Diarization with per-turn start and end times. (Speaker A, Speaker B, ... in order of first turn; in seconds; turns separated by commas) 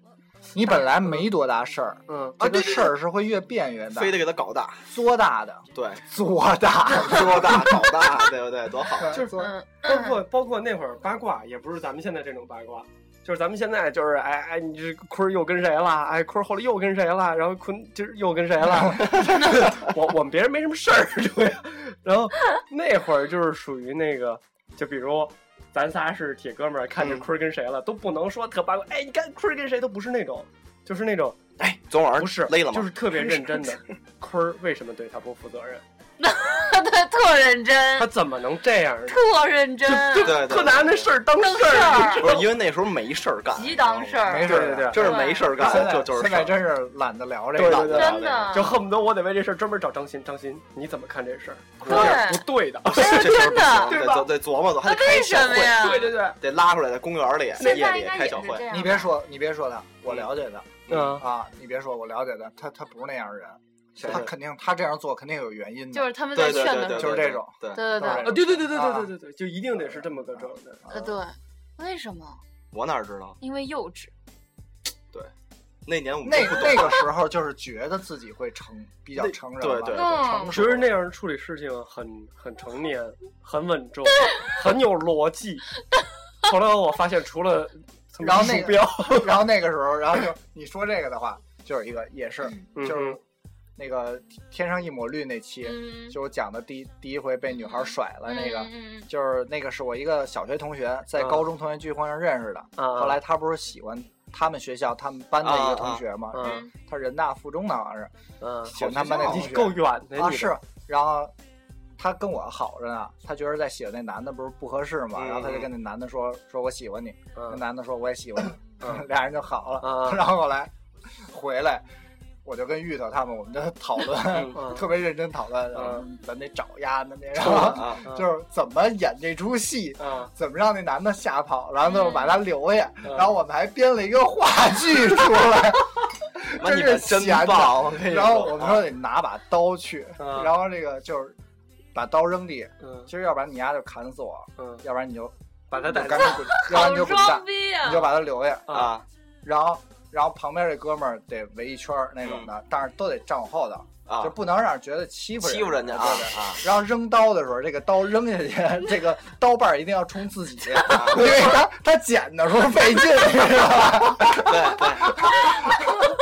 Speaker A: 0.6-4.3, Speaker B: 2.1-2.9, Speaker C: 3.9-4.8, Speaker A: 4.8-8.1, Speaker C: 5.8-6.0, Speaker C: 7.0-9.2, Speaker A: 9.0-9.5, Speaker B: 9.1-31.4, Speaker D: 9.3-10.2, Speaker C: 27.0-27.3, Speaker C: 31.6-33.8, Speaker B: 32.2-35.8, Speaker D: 36.2-38.1, Speaker B: 38.0-39.2, Speaker D: 39.1-40.5, Speaker B: 39.9-42.5, Speaker C: 40.1-41.1, Speaker D: 41.4-42.5, Speaker C: 42.0-46.6, Speaker D: 43.5-45.6, Speaker A: 44.2-48.2, Speaker B: 44.5-45.1, Speaker B: 47.5-54.3, Speaker C: 47.6-48.7, Speaker D: 47.8-48.8, Speaker C: 51.8-52.2, Speaker D: 51.9-54.0, Speaker C: 52.9-58.7, Speaker D: 54.8-56.2, Speaker B: 55.8-56.4, Speaker D: 57.6-59.1, Speaker B: 57.6-57.9, Speaker A: 58.7-69.1, Speaker B: 60.9-61.2, Speaker D: 65.9-68.4, Speaker C: 66.3-67.8, Speaker B: 68.1-70.8, Speaker A: 69.8-71.2, Speaker D: 70.9-72.4, Speaker C: 72.7-73.4, Speaker D: 73.4-74.1, Speaker C: 75.9-77.1, Speaker A: 76.2-80.9, Speaker C: 79.2-80.2, Speaker D: 79.9-80.6, Speaker B: 80.5-85.7, Speaker B: 86.4-89.5, Speaker A: 88.2-93.2, Speaker B: 92.8-93.2, Speaker A: 93.8-108.1, Speaker D: 95.6-96.2, Speaker D: 97.6-99.1, Speaker B: 101.2-101.5, Speaker B: 102.8-103.2, Speaker C: 105.4-106.0, Speaker B: 106.3-106.7, Speaker D: 106.4-106.7, Speaker B: 108.4-110.6, Speaker A: 108.7-111.3, Speaker C: 108.7-109.7, Speaker A: 112.0-121.8, Speaker C: 115.2-115.7, Speaker B: 117.4-117.6, Speaker B: 118.8-119.1, Speaker B: 119.8-120.3, Speaker A: 122.5-141.4, Speaker B: 124.3-124.9, Speaker B: 125.7-126.0, Speaker C: 127.4-128.1, Speaker B: 127.5-128.3, Speaker B: 130.0-130.3, Speaker D: 131.9-132.4, Speaker B: 133.0-133.3, Speaker C: 136.5-138.8, Speaker B: 140.2-140.5, Speaker A: 141.9-148.9, Speaker B: 142.8-143.1, Speaker B: 144.6-144.8, Speaker B: 145.7-146.7, Speaker D: 146.1-148.2, Speaker B: 148.7-148.9, Speaker C: 148.7-149.1, Speaker A: 149.4-165.9, Speaker C: 152.2-152.5, Speaker C: 154.1-154.3, Speaker C: 155.4-156.6, Speaker C: 160.9-161.5, Speaker C: 164.3-165.3